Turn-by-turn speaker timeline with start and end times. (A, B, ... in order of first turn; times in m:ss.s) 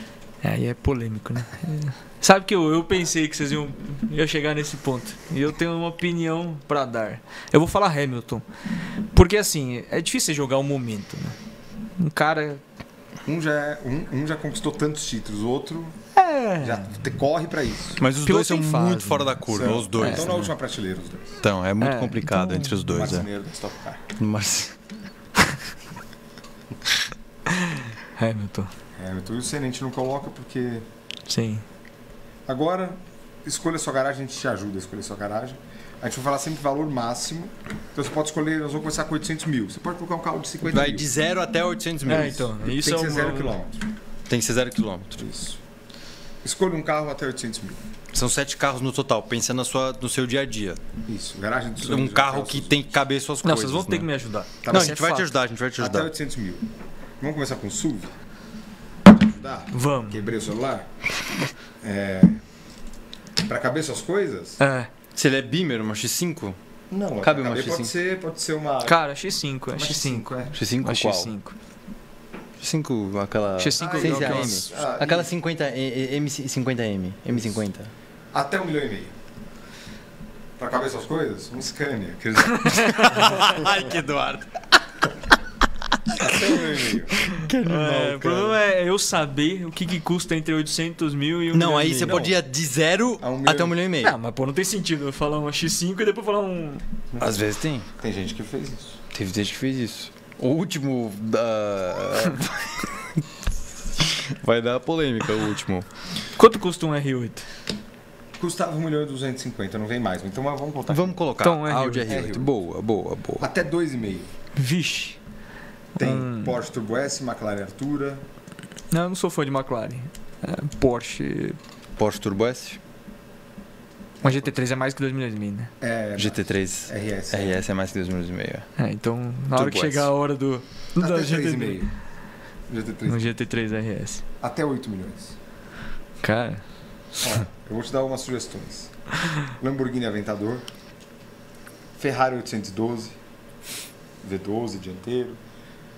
0:00.4-0:08.4 A
0:09.1-0:11.4 A
0:12.0-0:12.6 A
0:13.2-0:16.0 B
0:16.2-0:16.9 A
0:16.6-0:18.0 B
0:18.0-0:20.5 C
0:18.2-0:19.4 A
0:19.5-0:21.4 B
0:20.0-0:20.4 A
0:21.4-0:23.3 C
0:21.8-0:22.8 A
0:22.7-0:24.0 B
0:24.2-0:24.8 C
0:27.5-0:28.7 A
0:29.0-0:30.8 B
0:31.3-0:31.6 A
0:32.5-0:41.0 B
0:40.6-0:42.5 C
0:42.0-0:43.6 A
0:42.1-0:43.8 B
0:44.3-0:45.2 C
0:45.2-0:45.6 B
0:46.4-0:47.8 B
0:48.1-0:50.8 C
0:51.1-0:52.8 B
0:51.8-0:54.1 C
0:53.4-0:55.3 A
0:54.6-0:55.0 B
0:54.7-0:56.1 C
0:55.8-0:56.6 B
0:57.2-0:58.1 B
0:59.0-1:00.9 B
0:59.7-1:00.2 A
1:01.8-1:02.4 B
1:03.4-1:04.6 B
1:04.6-1:04.9 A
1:05.1-1:06.6 C
1:06.9-1:09.0 B
1:07.2-1:07.9 C
1:08.8-1:10.3 A
1:09.8-1:10.6 B
1:10.5-1:11.3 C
1:10.8-1:11.5 A
1:12.6-1:17.9 C
1:13.6-1:14.7 A
1:13.8-1:15.3 B
1:18.3-1:19.1 B
1:20.6-1:23.8 B
1:22.6-1:23.6 A
1:22.8-1:24.8 C
1:26.1-1:26.6 C
1:26.2-1:27.3 B
1:27.3-1:28.5 C
1:27.6-1:32.2 A
1:31.5-1:34.1 C
1:32.0-1:32.4 B
1:33.2-1:33.8 B
1:34.0-1:36.8 A
1:37.1-1:39.0 B
1:37.2-1:37.9 C
1:39.1-1:43.2 C
1:44.0-1:45.9 C
1:46.4-1:47.4 A
1:48.4-1:51.2 B
1:50.9-1:53.5 C
1:51.4-1:52.1 A
1:52.0-1:52.5 B
1:53.4-1:54.3 B
1:54.6-1:55.2 A
1:56.0-1:56.5 A
1:56.0-1:58.2 B
1:58.9-2:01.6 A
2:02.0-2:02.8 C
2:04.2-2:04.5 B
2:04.2-2:05.7 A
2:05.8-2:07.6 B
2:06.2-2:08.7 C
2:08.8-2:11.8 A
2:09.6-2:10.1 C
2:11.0-2:11.9 B
2:12.7-2:13.3 B
2:13.1-2:14.2 A
2:14.4-2:15.3 B
2:16.2-2:16.6 A
2:17.2-2:20.6 B
2:22.0-2:23.2 B
2:24.2-2:25.4 B